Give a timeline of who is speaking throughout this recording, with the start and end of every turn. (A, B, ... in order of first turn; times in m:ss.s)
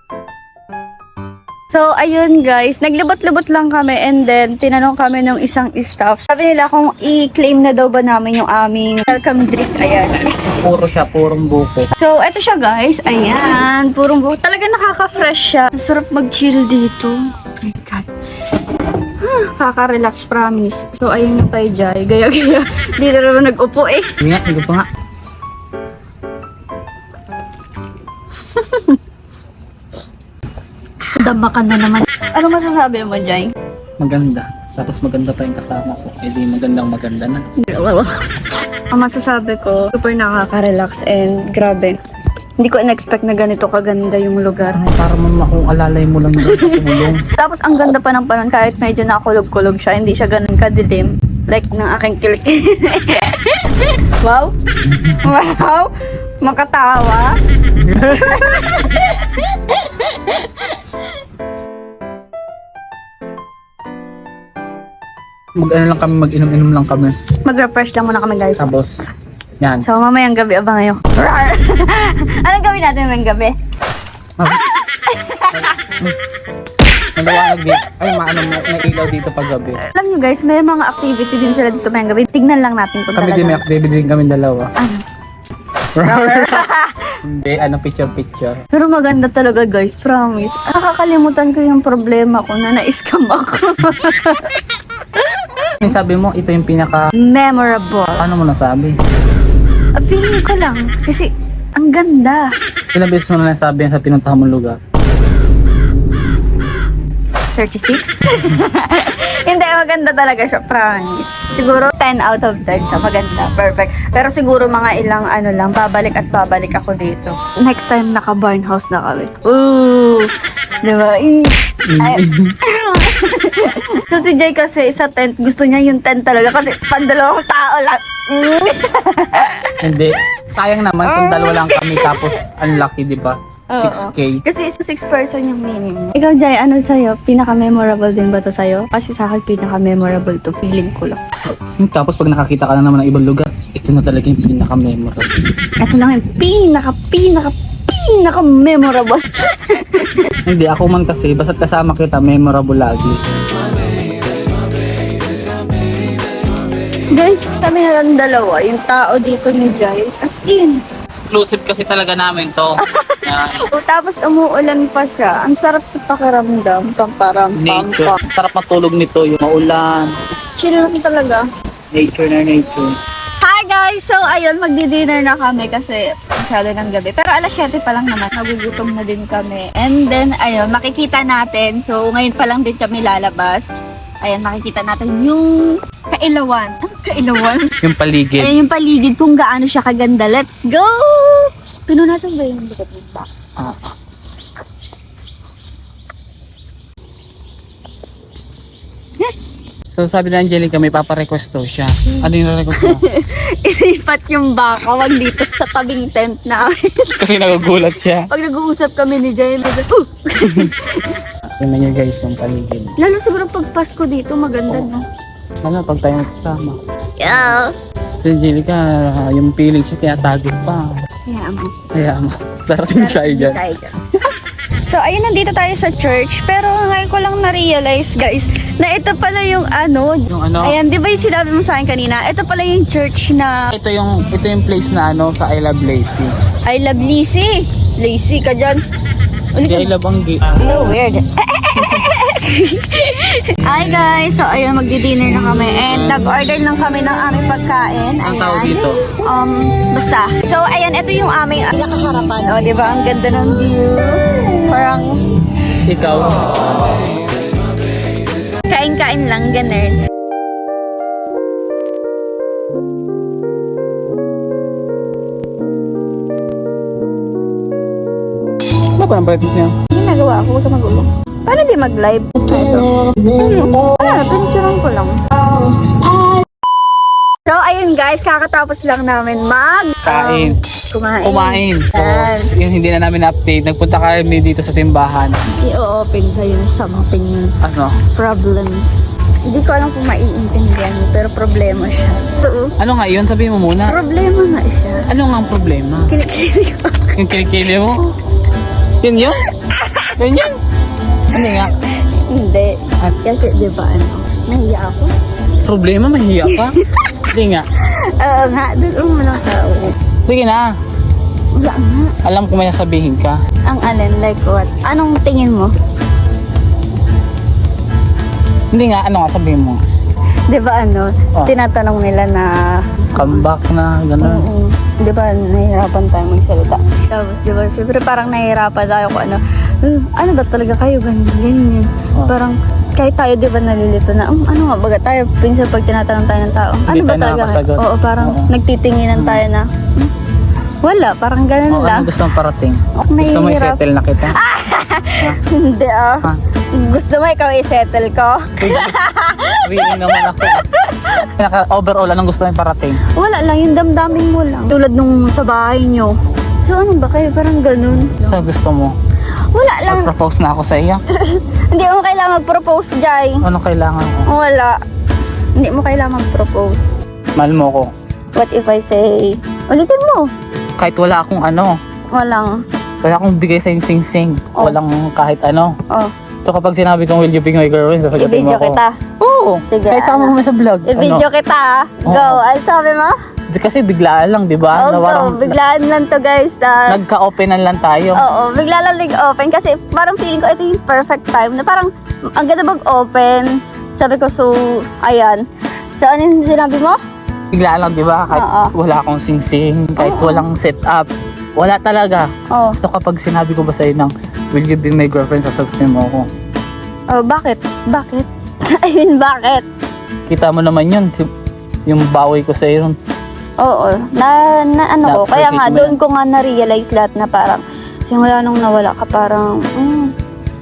0:01.7-0:10.4 A
0:10.5-0:11.9 B
0:11.9-0:18.1 A
0:19.2-0:24.1 A
0:24.2-0:24.9 B
0:28.4-0:29.0 A
0:31.1-0:33.5 A
0:34.0-0:37.4 B
0:37.6-0:38.2 A
0:38.9-0:42.0 A
0:42.6-0:44.8 A
0:44.7-0:47.2 B
0:46.4-0:54.5 A
0:54.9-0:55.3 B
0:55.1-0:57.3 A
0:57.8-0:58.2 B
0:57.8-1:01.2 A
1:05.6-1:07.1 B
1:07.4-1:08.7 A
1:08.6-1:09.0 B
1:09.6-1:09.8 B
1:09.8-1:13.5 A
1:14.5-1:15.9 A
1:15.5-1:16.2 B
1:17.2-1:19.8 B
1:17.3-1:17.9 A
1:19.8-1:23.8 A
1:23.2-1:24.7 B
1:24.8-1:25.0 A
1:25.9-1:26.7 B
1:26.0-1:27.0 A
1:27.2-1:28.9 B
1:28.7-1:35.9 A
1:35.8-1:37.1 B
1:37.2-1:38.2 A
1:38.2-1:39.0 B
1:40.0-1:42.4 A
1:42.9-1:44.8 B
1:47.5-2:00.3 A
2:00.8-2:09.8 A
2:01.9-2:02.5 B
2:09.8-2:14.4 B
2:11.0-2:12.4 A
2:13.7-2:21.2 A
2:21.6-2:25.3 B
2:25.8-2:30.3 A
2:30.4-2:33.2 B
2:37.1-2:40.8 A
2:41.1-2:43.6 B
2:42.8-2:48.2 A
2:47.6-2:50.1 B
2:50.6-2:51.4 A
2:51.9-2:53.0 B
2:53.4-3:03.7 A
3:04.2-3:07.8 A
3:07.8-3:08.6 B
3:08.4-3:13.3 A
3:13.6-3:13.9 B
3:19.9-3:23.0 B
3:22.1-3:27.2 A
3:27.2-3:28.3 B
3:28.3-3:31.2 A
3:30.4-3:30.7 B
3:31.6-3:32.9 B
3:33.0-3:35.0 A
3:35.6-3:36.8 B
3:37.2-3:37.7 A
3:38.2-3:41.0 B
3:41.3-3:41.8 A
3:41.9-3:43.7 B
3:42.9-3:44.1 A
3:44.7-3:53.6 A
3:50.3-3:50.8 B
3:53.7-3:56.4 B
3:56.6-3:58.8 A
3:59.5-3:59.9 A
3:59.6-4:00.9 B
4:00.5-4:15.4 A
4:08.2-4:09.0 B
4:15.8-4:16.7 B
4:18.7-4:20.0 A
4:29.0-4:29.8 B
4:29.9-4:36.4 A
4:37.5-4:42.5 A
4:40.0-4:40.6 B
4:41.2-4:45.4 B
4:45.6-4:47.5 A
4:47.6-4:48.0 B
4:48.2-4:52.7 A
4:52.8-4:54.0 B
4:53.8-4:55.1 A
4:55.1-4:56.1 B
4:56.1-4:57.4 A
4:57.1-4:58.2 B
4:59.0-4:59.4 B
4:59.3-5:00.4 A
5:00.2-5:00.6 B
5:01.3-5:01.7 B
5:01.5-5:05.1 A
5:05.6-5:06.8 B
5:06.4-5:07.1 A
5:07.3-5:07.7 B
5:07.8-5:09.9 A
5:10.3-5:10.7 B
5:11.5-5:12.2 A
5:12.2-5:13.4 B
5:13.7-5:15.7 A
5:18.7-5:19.8 B
5:20.5-5:23.4 A
5:23.1-5:24.4 B
5:24.2-5:40.1 A
5:36.9-5:38.5 B
5:39.1-5:39.4 B
5:40.8-5:42.1 A
5:41.7-5:44.4 B
5:42.9-5:51.3 A
5:48.6-5:49.0 B
5:49.6-5:50.6 B
5:51.4-5:53.0 B
5:53.0-5:56.1 A
5:56.6-5:58.5 A
5:57.9-5:58.9 B
5:59.5-6:00.1 A
5:59.8-6:01.0 B
6:01.1-6:03.4 A
6:03.4-6:04.3 B
6:04.2-6:04.8 A
6:05.6-6:06.9 A
6:07.4-6:07.9 B
6:08.4-6:10.3 A
6:10.8-6:11.8 B
6:12.1-6:12.5 A
6:13.0-6:15.7 B
6:16.4-6:21.2 B
6:18.1-6:19.0 A
6:19.7-6:20.3 A
6:20.8-6:23.1 A
6:22.0-6:22.4 B
6:23.5-6:25.6 B
6:24.8-6:27.0 A
6:26.9-6:28.2 B
6:28.1-6:35.4 A
6:36.0-6:37.0 A
6:37.5-6:46.3 B
6:38.3-6:38.7 A
6:40.0-6:40.4 A
6:42.5-6:42.8 A
6:47.1-6:49.6 A
6:50.3-6:51.1 B
6:51.9-6:53.0 B
6:53.6-7:00.1 A
6:55.0-6:56.0 B